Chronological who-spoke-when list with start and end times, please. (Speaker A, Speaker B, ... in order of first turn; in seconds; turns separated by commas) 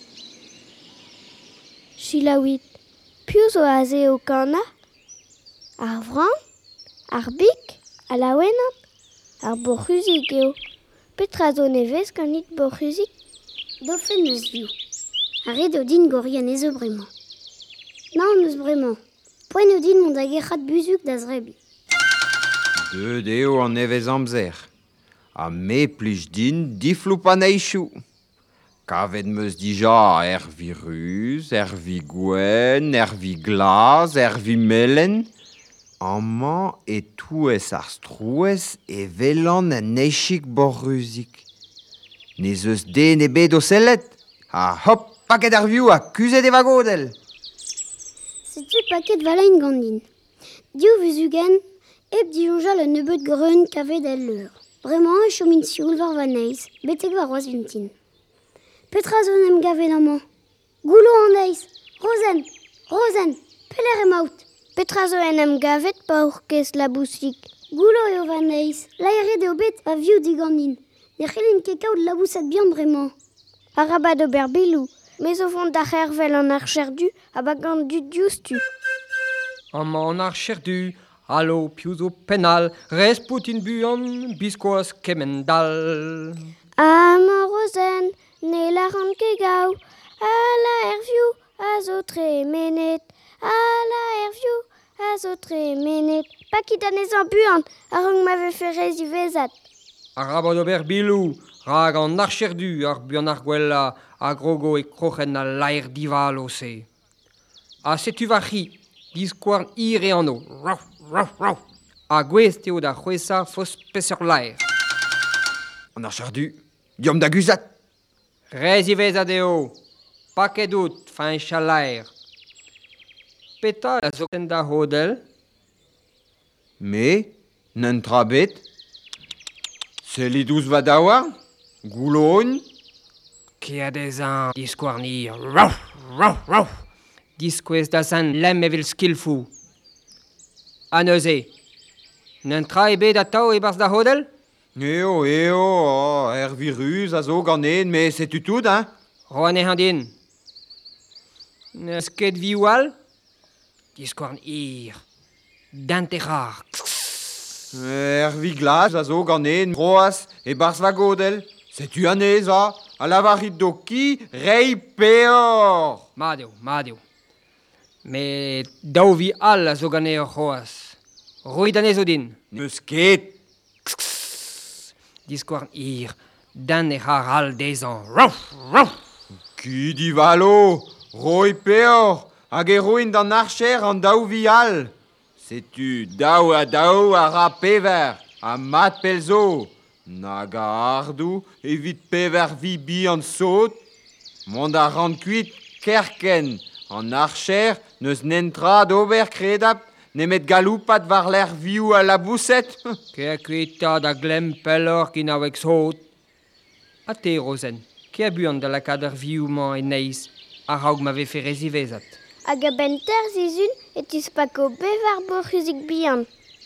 Speaker A: 2.0-2.6, Speaker A: 3.3-4.6, Speaker A: 5.8-6.3, Speaker A: 7.1-8.7, Speaker A: 9.4-10.6, Speaker A: 11.2-13.1, Speaker B: 13.8-14.7, Speaker B: 15.4-17.1, Speaker B: 18.1-19.0, Speaker B: 19.5-21.6, Speaker C: 22.9-24.7, Speaker C: 25.3-27.9, Speaker C: 28.9-35.3, Speaker C: 36.0-41.4, Speaker C: 42.4-47.1, Speaker B: 48.5-50.0, Speaker B: 50.7-51.6, Speaker B: 52.1-57.9, Speaker B: 58.9-60.2, Speaker B: 60.8-64.4, Speaker A: 64.8-67.5, Speaker B: 67.7-73.1, Speaker A: 73.7-78.6, Speaker D: 79.7-86.5, Speaker A: 86.8-99.5, Speaker D: 100.2-106.9, Speaker D: 107.8-114.6, Speaker C: 115.9-117.7, Speaker D: 118.5-119.7, Speaker D: 120.3-122.1, Speaker D: 123.6-125.2, Speaker C: 126.8-128.6, Speaker C: 130.0-132.6, Speaker D: 133.6-136.8, Speaker D: 137.4-139.5, Speaker D: 140.9-141.5, Speaker D: 142.4-144.3, Speaker C: 144.7-148.9, Speaker D: 149.3-150.1, Speaker D: 151.7-152.9, Speaker D: 153.9-155.0, Speaker D: 155.7-157.4, Speaker C: 157.7-166.0, Speaker D: 166.2-167.0, Speaker D: 168.0-172.4, Speaker C: 172.5-173.3, Speaker D: 173.9-174.5, Speaker D: 175.3-178.9, Speaker C: 179.6-193.8, Speaker C: 194.4-202.8, Speaker D: 203.1-206.0, Speaker D: 207.1-212.2, Speaker A: 212.4-216.3